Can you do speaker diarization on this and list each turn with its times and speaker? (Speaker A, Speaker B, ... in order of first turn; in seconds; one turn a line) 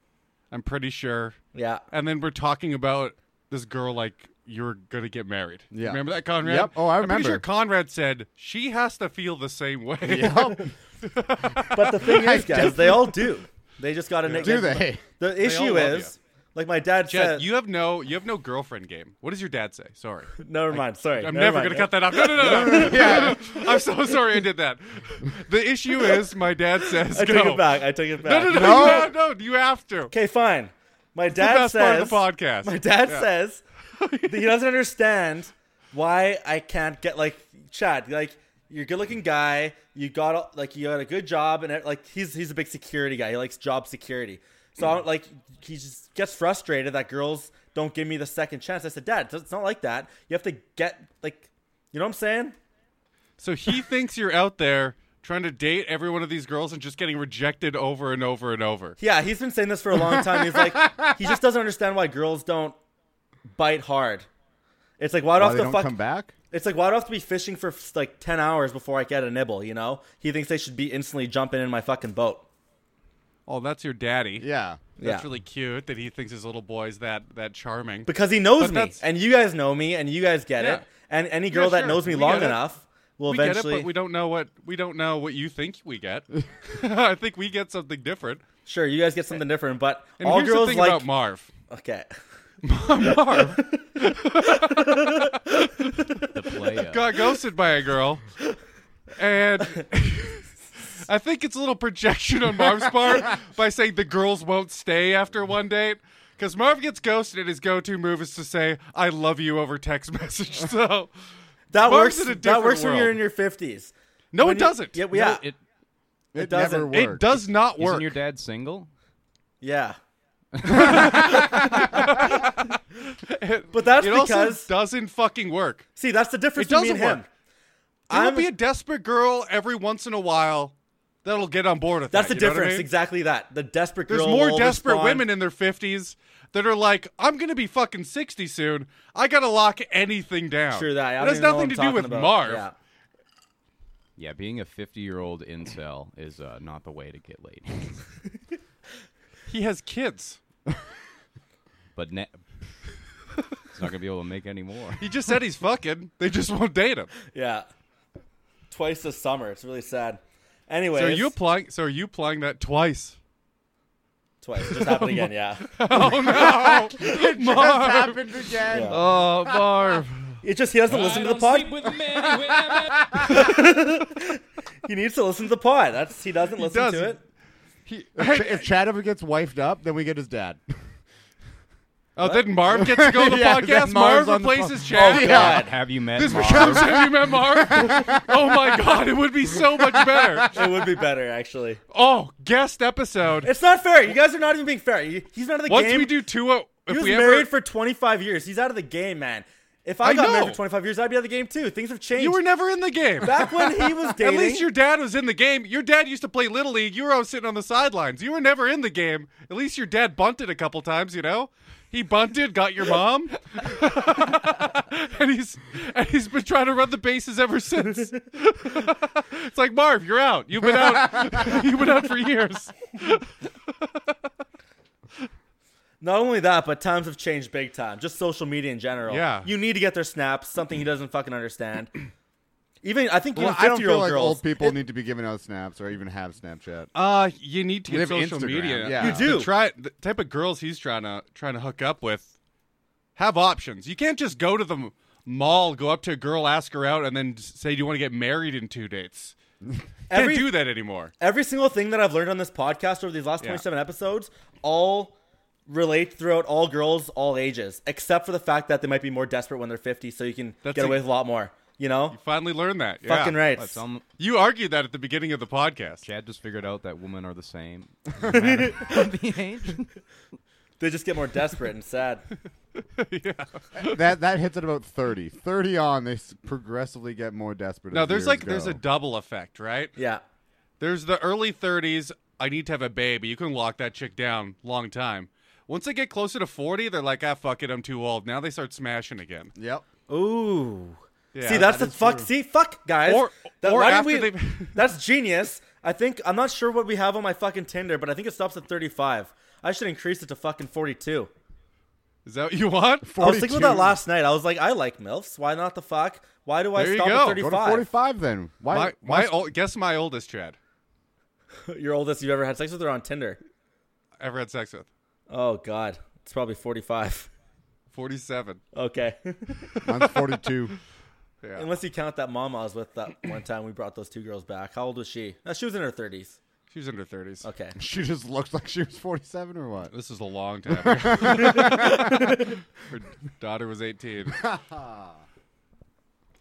Speaker A: 0.5-1.4
Speaker B: 1.5-1.8
Speaker A: 1.9-12.7
Speaker C: 5.7-7.4
Speaker C: 10.0-10.7
Speaker B: 11.7-17.4
Speaker C: 12.0-13.1
Speaker A: 14.2-16.1
Speaker C: 14.4-15.0
Speaker A: 17.1-30.1
Speaker B: 20.4-23.6
Speaker C: 22.4-23.4
Speaker B: 27.0-29.1
Speaker C: 28.5-29.1
Speaker B: 30.1-33.6
Speaker A: 31.3-33.3
Speaker A: 34.0-34.5
Speaker B: 34.2-52.5
Speaker A: 53.4-59.0
Speaker B: 59.0-62.8
Speaker C: 60.4-61.1
Speaker B: 63.5-64.3
Speaker B: 65.0-65.9
Speaker C: 65.3-66.3
Speaker B: 66.5-72.4
Speaker A: 73.5-74.5
Speaker C: 74.4-74.8
Speaker A: 75.0-79.0
Speaker B: 75.0-75.2
Speaker B: 78.1-83.9
Speaker A: 80.6-80.8
Speaker A: 81.5-82.7
Speaker A: 83.3-88.4
Speaker B: 88.7-91.0
Speaker A: 90.2-91.5
Speaker B: 91.7-92.1
Speaker A: 92.6-96.0
Speaker B: 93.3-93.9
Speaker B: 94.4-96.3
Speaker D: 96.3-97.2
Speaker A: 96.9-98.2
Speaker A: 99.1-111.1
Speaker B: 111.7-115.4
Speaker A: 111.8-113.2
Speaker A: 114.3-115.0
Speaker D: 115.1-115.6
Speaker C: 116.3-117.4
Speaker B: 116.4-116.9
Speaker A: 116.9-118.2
Speaker D: 117.8-118.9
Speaker B: 119.6-120.0
Speaker D: 120.6-122.0
Speaker A: 120.6-125.9
Speaker C: 120.9-121.3
Speaker B: 123.7-124.7
Speaker B: 126.0-127.3
Speaker A: 126.5-127.2
Speaker A: 128.1-132.9
Speaker B: 128.1-128.5
Speaker B: 132.1-135.2
Speaker A: 134.1-142.7
Speaker B: 140.7-142.7
Speaker D: 144.2-148.2
Speaker A: 149.5-150.4
Speaker D: 151.9-152.4
Speaker D: 153.7-155.1
Speaker A: 155.0-157.1
Speaker B: 157.3-157.7
Speaker B: 158.7-161.3
Speaker A: 160.9-163.2
Speaker B: 164.4-165.8
Speaker A: 164.6-170.4
Speaker C: 165.9-170.0
Speaker B: 168.7-169.0
Speaker B: 170.4-171.9
Speaker E: 170.9-173.6
Speaker C: 172.1-173.2
Speaker B: 173.2-177.2
Speaker A: 176.6-177.2
Speaker A: 177.8-178.7
Speaker C: 178.1-180.8
Speaker A: 182.2-190.6
Speaker B: 182.2-182.5
Speaker C: 182.7-185.7
Speaker B: 184.9-185.8
Speaker D: 185.4-187.0
Speaker C: 186.3-188.6
Speaker C: 189.6-190.5
Speaker B: 190.5-191.8
Speaker A: 191.9-193.5
Speaker B: 193.4-196.2
Speaker A: 195.7-197.5
Speaker B: 196.9-202.4
Speaker A: 200.0-200.6
Speaker A: 202.2-224.1
Speaker B: 203.2-204.7
Speaker B: 226.0-232.0
Speaker A: 229.1-229.5
Speaker B: 232.8-234.8
Speaker C: 233.3-236.9
Speaker A: 236.9-242.3
Speaker C: 237.9-239.3
Speaker B: 238.9-239.5
Speaker A: 243.2-249.3
Speaker B: 250.1-250.6
Speaker A: 250.1-251.1
Speaker B: 251.2-255.1
Speaker B: 255.7-262.2
Speaker A: 260.6-261.0
Speaker A: 262.1-263.4
Speaker B: 263.1-263.8
Speaker D: 263.5-264.0
Speaker A: 264.2-266.0
Speaker D: 266.0-270.0
Speaker B: 268.3-269.0
Speaker B: 270.8-272.2
Speaker A: 272.8-274.0
Speaker C: 273.7-278.8
Speaker A: 277.9-279.9
Speaker B: 279.9-280.2
Speaker A: 280.8-289.5
Speaker C: 289.6-289.8
Speaker B: 290.1-301.3
Speaker A: 291.3-291.7
Speaker C: 291.4-292.3
Speaker A: 293.0-294.8
Speaker A: 302.2-303.1
Speaker C: 303.0-304.0
Speaker B: 303.2-307.9
Speaker A: 306.7-307.4
Speaker C: 307.4-309.5
Speaker A: 308.7-310.6
Speaker B: 311.7-313.4
Speaker A: 314.2-314.9
Speaker B: 315.3-317.3
Speaker A: 317.9-318.6
Speaker B: 318.7-319.7
Speaker C: 319.8-320.8
Speaker A: 321.4-321.7
Speaker B: 321.6-326.4
Speaker A: 326.7-327.4
Speaker B: 327.4-327.7
Speaker C: 327.8-329.9
Speaker A: 329.9-334.4
Speaker C: 330.7-332.3
Speaker B: 331.2-332.6
Speaker C: 334.3-335.2